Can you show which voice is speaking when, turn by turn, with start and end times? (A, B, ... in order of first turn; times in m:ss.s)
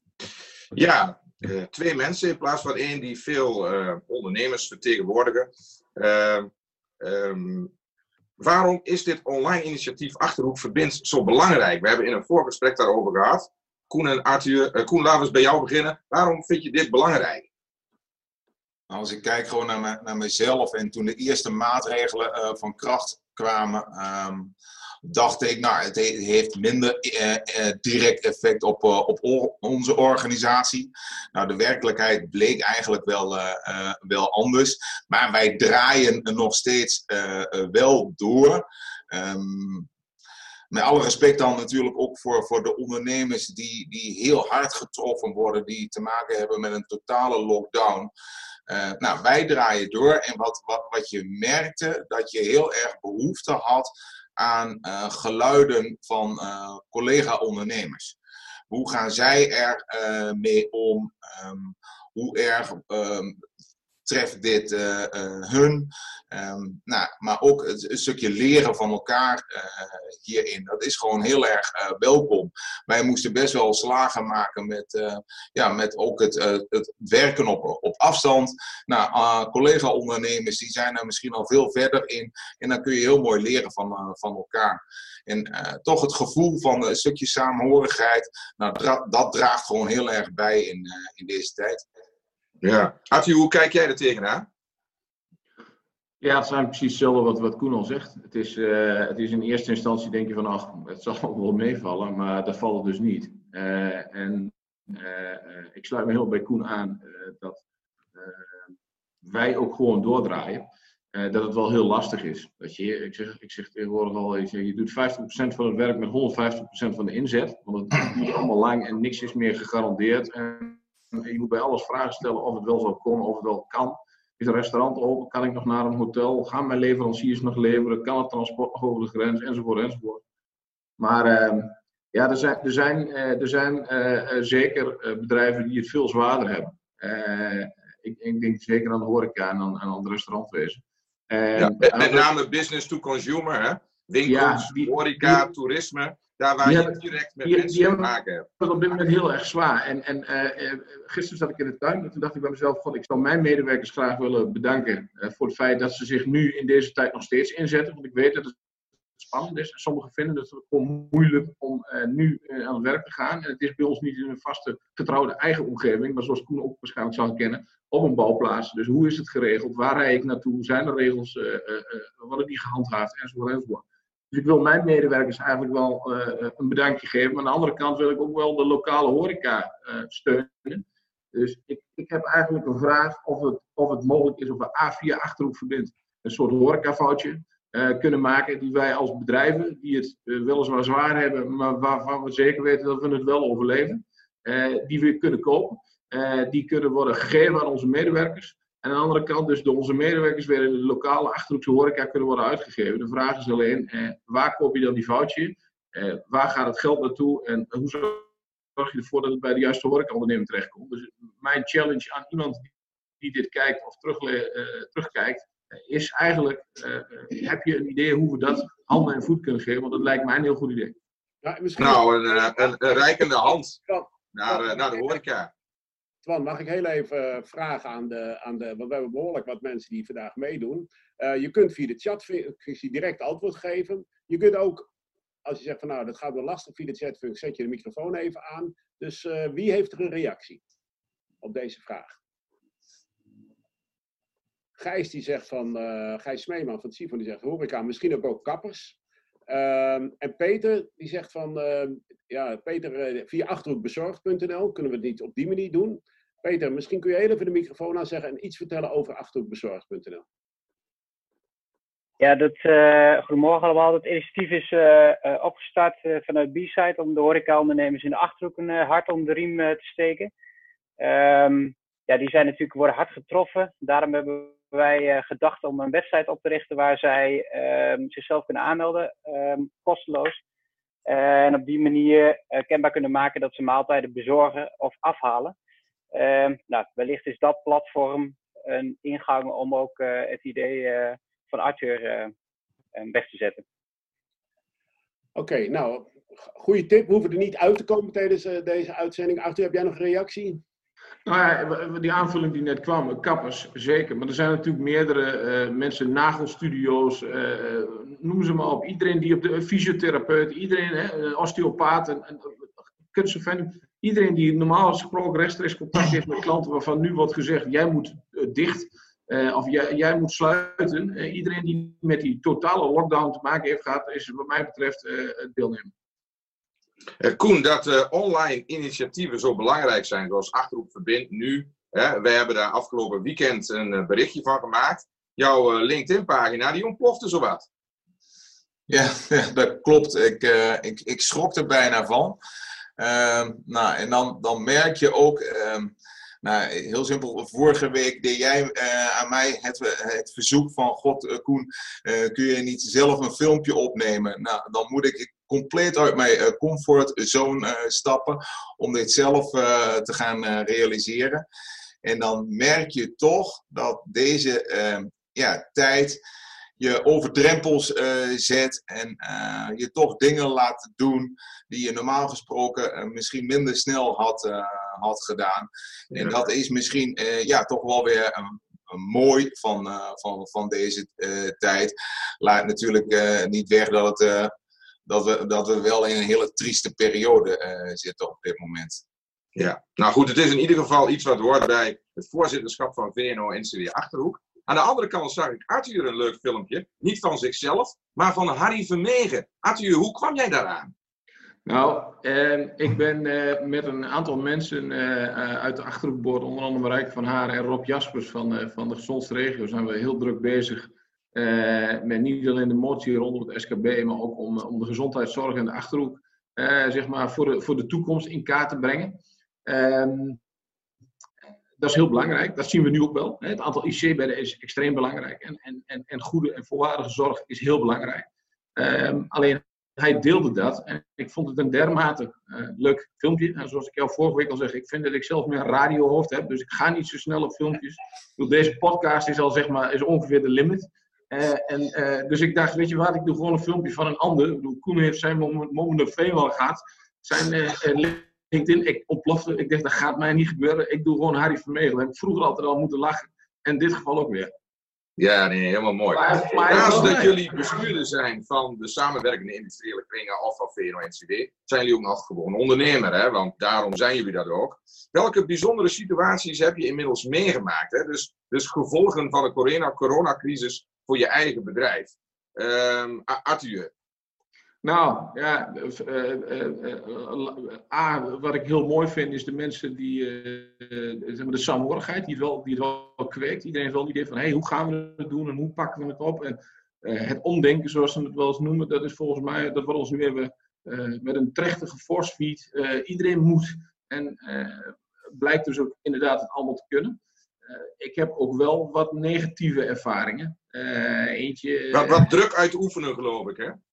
0:00.8-0:06.5 A
0:07.0-0:07.7 A
0:08.4-0:17.5 A
0:18.9-0:24.5 B
0:25.0-0:39.9 B
0:40.7-0:48.1 B
0:48.7-0:58.2 B
0:58.7-1:03.3 B
1:04.0-1:31.8 B
1:32.6-1:34.5 A
1:36.2-1:47.6 C
1:48.1-1:48.4 C
1:49.2-2:10.2 C
2:11.0-2:22.3 C
2:21.6-2:29.0 A
2:24.2-2:25.5 C
2:26.6-2:38.6 C
2:39.2-3:40.9 C
3:41.4-3:44.1 D
3:41.8-3:43.8 A
3:44.3-3:45.5 A
3:46.2-3:54.9 D
3:55.4-4:00.6 D
4:01.4-4:02.2 D
4:04.8-4:09.0 D
4:09.5-4:20.2 D
4:22.2-4:30.3 E
4:31.0-4:40.4 E
4:41.1-4:45.5 E
4:46.1-4:52.3 E
4:52.9-4:53.6 E
4:55.4-5:00.6 D
5:01.2-5:12.6 C
5:13.1-5:25.9 C
5:27.2-5:37.7 A
5:38.9-5:42.4 B
5:43.0-6:01.4 B
6:02.0-6:06.2 B
6:06.8-6:24.5 B
6:25.1-6:29.0 B
6:29.6-6:40.9 A
6:41.7-7:00.4 C
7:01.8-7:34.5 C
7:35.2-7:53.9 A
7:36.1-7:37.4 C
7:54.8-8:22.3 C
8:21.9-8:23.8 A